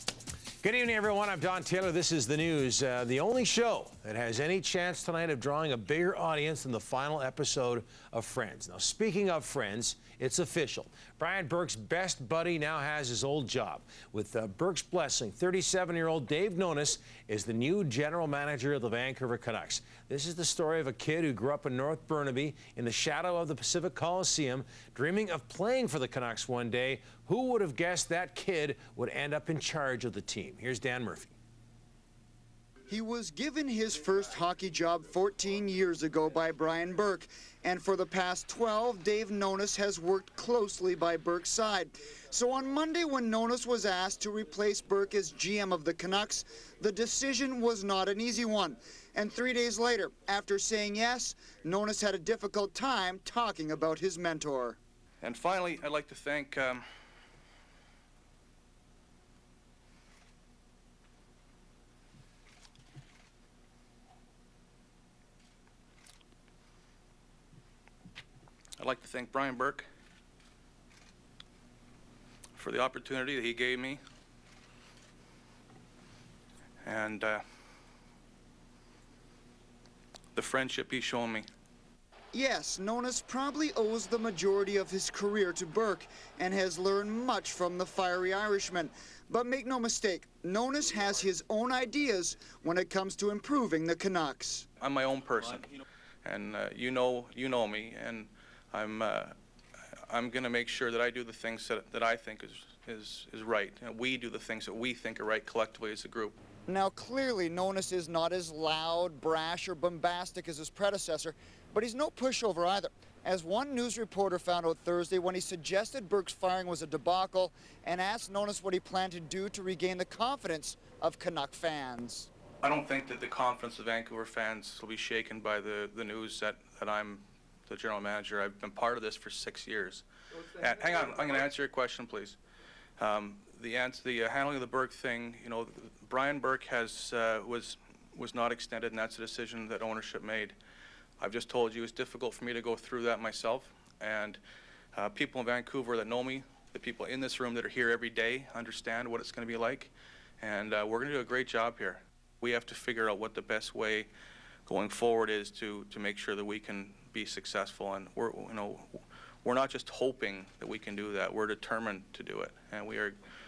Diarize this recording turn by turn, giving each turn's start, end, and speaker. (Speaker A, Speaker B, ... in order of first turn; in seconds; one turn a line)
Speaker A: 0.6-31.3
Speaker B: 32.9-54.8
Speaker C: 55.2-56.8
Speaker C: 68.8-69.9
Speaker C: 72.6-74.0
Speaker C: 76.8-77.4
Speaker C: 80.3-81.5
Speaker B: 82.3-94.7
Speaker C: 94.8-95.7
Speaker C: 96.2-99.3
Speaker C: 100.1-106.3
Speaker B: 106.7-122.3
Speaker C: 122.6-130.0
Speaker C: 130.6-132.4
Speaker C: 133.0-140.6
Speaker C: 141.2-144.4
Speaker C: 144.9-154.1
Speaker C: 154.7-163.2